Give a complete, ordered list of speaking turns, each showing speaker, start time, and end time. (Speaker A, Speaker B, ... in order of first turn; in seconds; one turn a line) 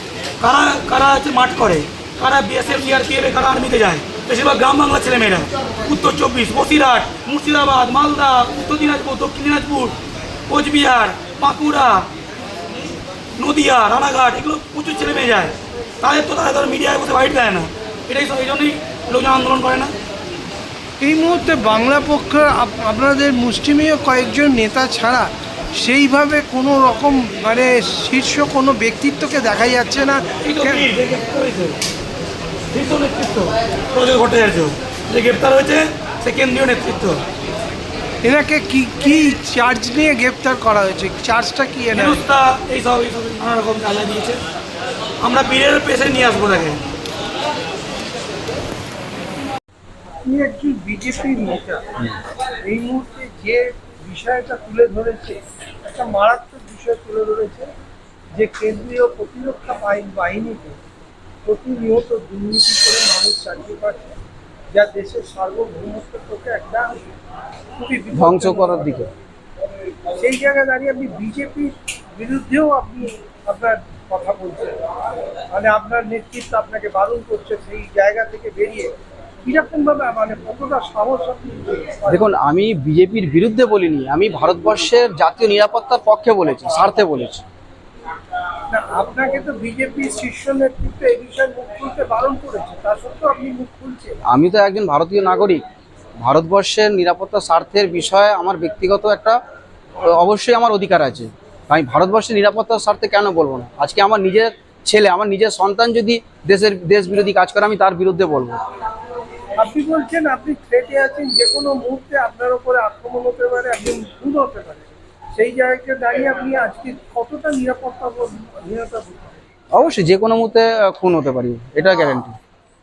Speaker A: 0.4-10.0
Speaker A: 10.5-12.1
Speaker A: 13.4-19.9
Speaker B: 21.0-25.3
Speaker B: 25.8-30.8
Speaker A: 30.4-31.8
Speaker A: 32.7-37.2
Speaker B: 38.2-42.2
Speaker A: 41.9-44.4
Speaker A: 45.2-46.8
Speaker B: 50.2-51.9
Speaker B: 52.6-57.7
Speaker B: 58.3-60.8
Speaker B: 61.5-64.2
Speaker B: 64.7-67.0
Speaker B: 67.8-69.0
Speaker C: 68.1-69.1
Speaker B: 70.2-74.8
Speaker B: 75.5-78.9
Speaker B: 79.5-82.2
Speaker C: 82.1-87.4
Speaker B: 88.7-94.2
Speaker C: 94.3-95.6
Speaker C: 96.2-99.4
Speaker C: 100.1-108.6
Speaker B: 109.6-119.4
Speaker C: 119.7-122.4